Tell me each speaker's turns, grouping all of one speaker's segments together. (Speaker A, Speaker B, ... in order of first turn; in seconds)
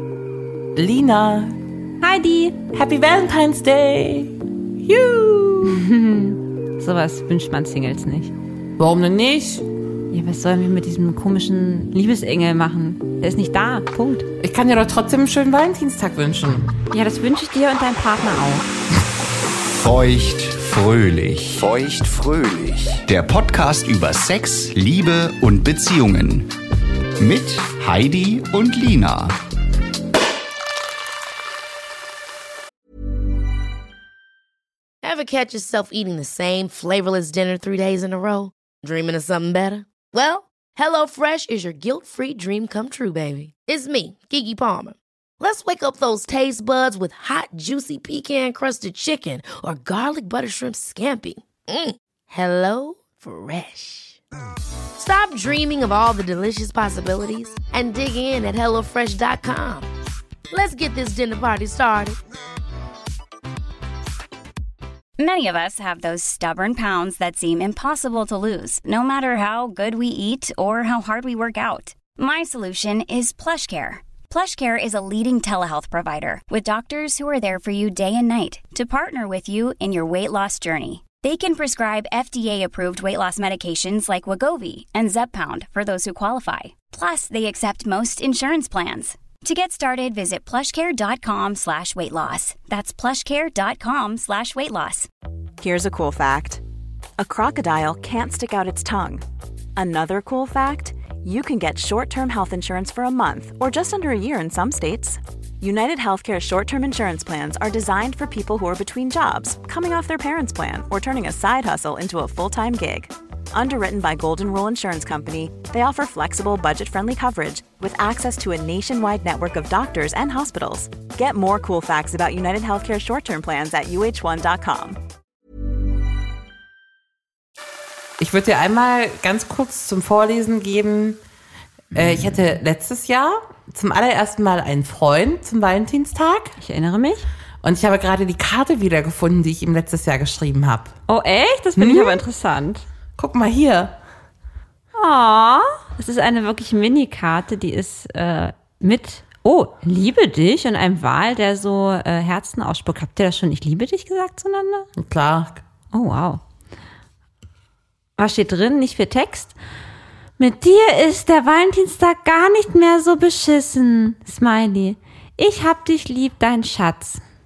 Speaker A: 0.8-1.6, 2.7-5.9, 8.8-9.6, 14.4-16.7, 128.2-131.2, 131.9-136.6, 137.6-140.9, 141.8-142.2, 143.2-143.9, 155.0-155.6
Speaker B: 2.0-2.6, 5.6-8.3, 10.1-14.3, 16.9-18.7, 136.6-137.3, 141.1-142.8, 144.9-154.9, 155.9-156.4, 158.2-159.5, 160.4-167.2
Speaker C: 19.7-26.5, 27.2-29.4
Speaker D: 35.0-54.2, 55.0-59.9, 60.5-62.2
Speaker E: 65.2-95.1
Speaker F: 95.6-96.6, 97.2-99.2, 99.8-125.0